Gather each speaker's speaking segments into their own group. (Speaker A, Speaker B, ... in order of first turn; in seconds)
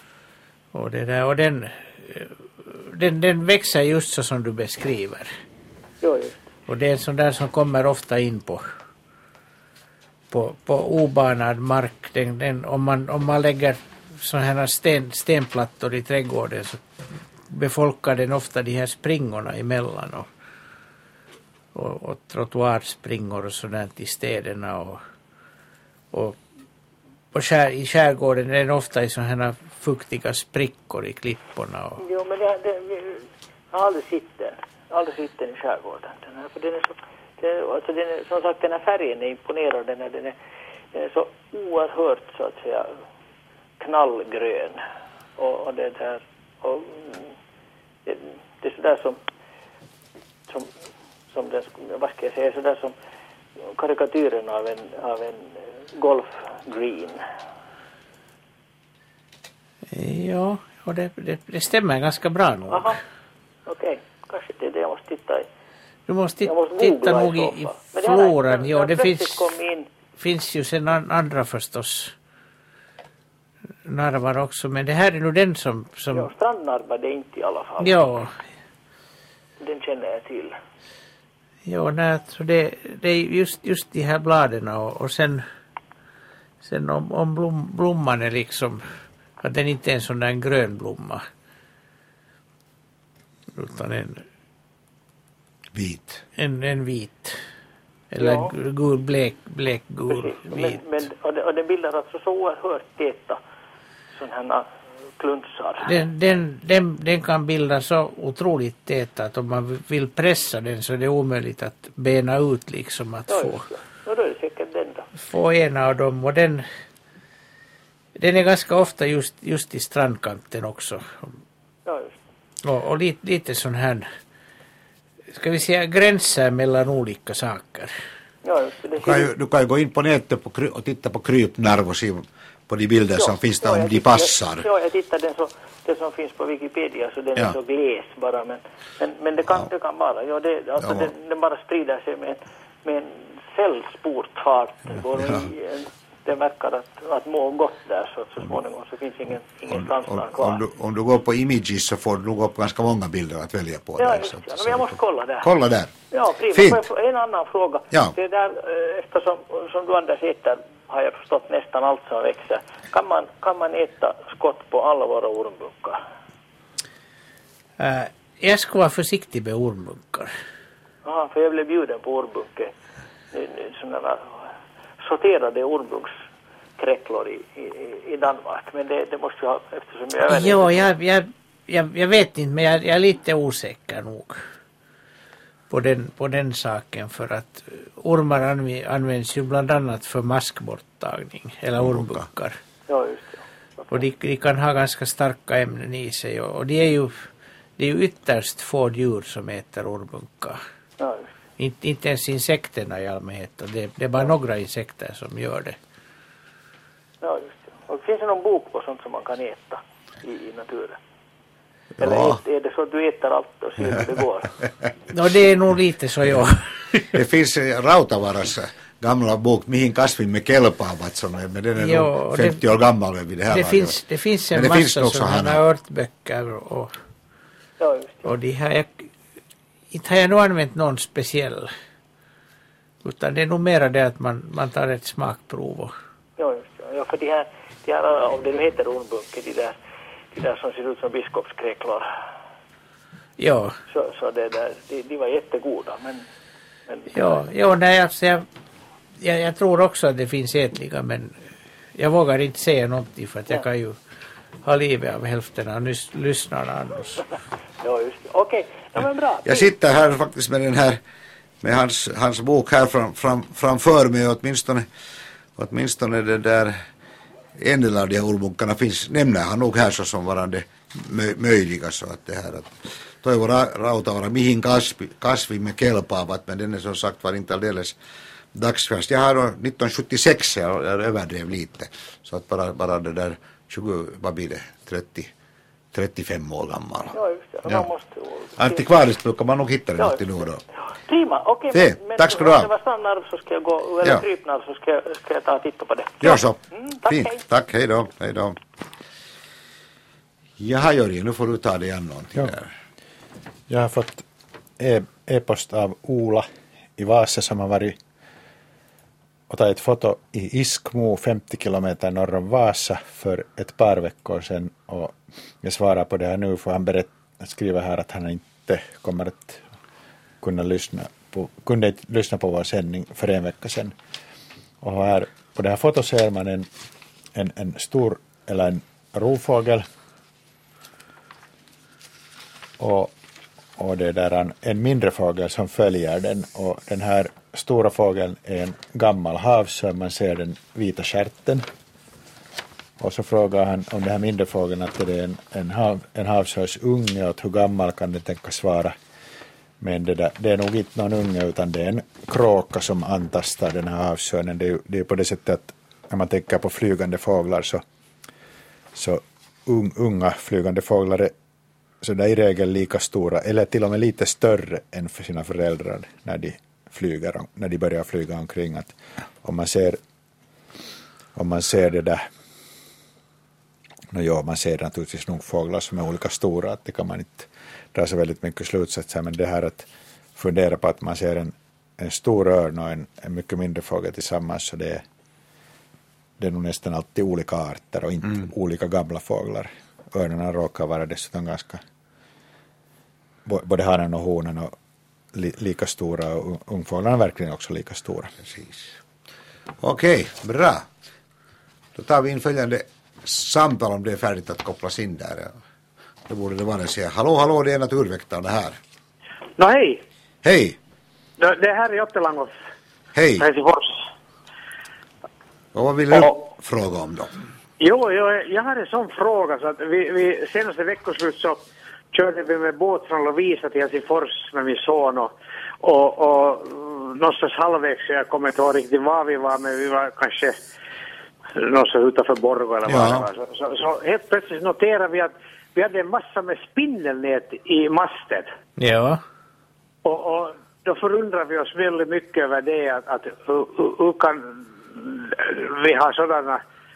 Speaker A: 0.7-5.3, 6.7-8.6, 10.3-16.8, 17.5-20.3, 21.7-25.0, 26.1-26.4, 27.3-32.0, 59.9-63.0, 66.1-69.5, 70.2-72.1, 73.8-76.3, 77.8-78.3, 81.7-85.4, 86.6-88.8, 89.4-91.2, 93.5-94.2, 96.4-97.3, 98.1-100.8, 105.8-113.6, 115.2-116.6, 118.2-121.3, 122.6-124.0, 125.3-127.9, 167.8-170.3, 180.2-184.4, 185.7-192.6, 193.9-197.2, 197.8-200.6, 201.6-205.8, 215.1-217.1, 221.8-222.6, 223.5-226.9, 228.2-229.1, 229.9-231.7, 233.0-235.9, 243.4-243.8, 247.1-248.4, 249.2-251.3, 251.9-254.0, 254.6-257.2, 438.8-439.2
Speaker B: 6.0-6.4, 32.0-40.4, 40.9-42.9, 43.8-44.8, 45.4-47.3, 48.0-49.2, 51.3-52.9, 53.7-57.2, 62.7-63.0, 63.6-65.5, 66.4-69.9, 76.1-78.0, 79.6-80.5, 98.2-98.5, 100.1-103.4, 104.2-104.7, 105.2-105.9, 113.3-115.1, 121.8-122.2, 128.4-129.3, 133.2-150.6, 154.0-155.5, 156.1-166.0, 171.0-172.7, 173.3-174.3, 175.0-176.1, 176.8-180.9, 192.9-194.0, 201.0-201.3, 207.2-211.0, 212.0-214.5, 227.8-228.3, 236.4-239.8, 240.3-242.1, 243.9-246.2, 246.9-247.4, 257.8-259.7, 287.1-288.9, 290.0-290.2, 290.8-297.4
Speaker C: 95.7-96.2, 129.0-134.7, 140.8-141.1, 145.1-145.4, 149.7-155.9, 156.5-156.8, 191.8-192.2, 212.0-212.4, 217.1-224.0, 224.5-225.6, 259.4-261.0, 261.6-264.9, 265.6-266.8, 267.6-277.9, 278.5-285.3, 285.9-287.1, 288.6-290.6, 291.7-292.7, 296.2-298.6, 300.6-302.7, 398.4-398.9, 399.8-400.9, 401.9-405.5, 406.3-408.8, 410.4-410.8, 413.1-413.5, 415.7-417.4, 432.9-433.2
Speaker D: 303.7-304.2, 304.8-308.0, 309.5-319.6, 320.4-323.9, 324.8-326.7, 327.3-329.9, 332.8-333.1, 333.8-341.6, 343.0-348.9, 349.8-357.8, 358.9-361.3, 362.0-370.0, 371.4-372.2, 374.1-385.0, 386.4-391.8, 393.4-394.7, 395.3-398.3
Speaker E: 409.6-410.0, 411.4-412.5, 413.4-414.0, 417.8-421.6, 422.1-430.6, 431.5-438.5, 440.0-446.6